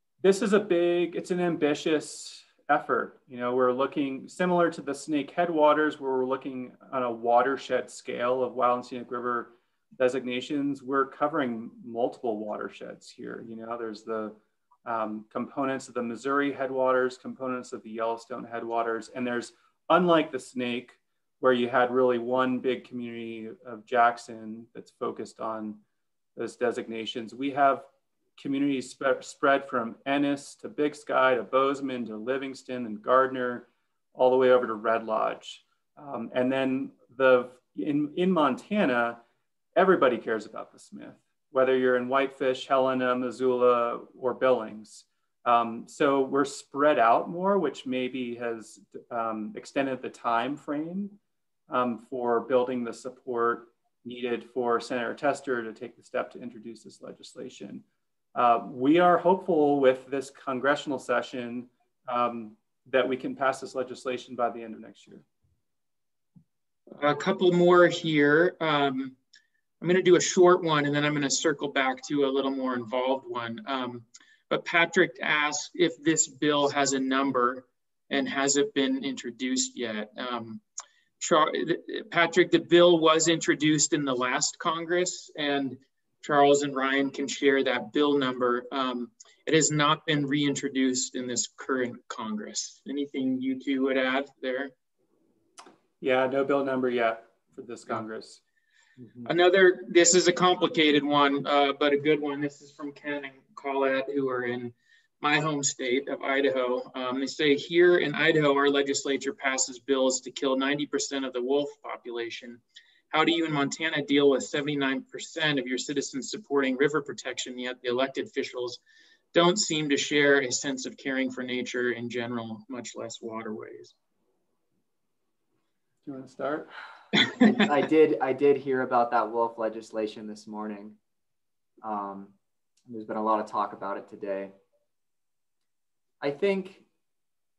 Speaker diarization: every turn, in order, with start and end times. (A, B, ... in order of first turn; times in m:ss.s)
0:00.2-0:25.8 A
0:26.4-0:39.2 A
0:39.8-0:51.2 A
0:51.7-0:57.8 A
0:58.4-1:05.2 A
1:07.0-1:09.2 B
1:09.8-1:20.6 B
1:21.2-1:34.7 B
1:36.0-1:38.4 A
1:39.2-1:58.8 B
1:59.3-2:03.9 B
2:06.1-2:06.7 A
2:07.4-2:11.0 C
2:11.8-2:12.3 C
2:12.9-2:14.5 C
2:16.2-2:16.8 C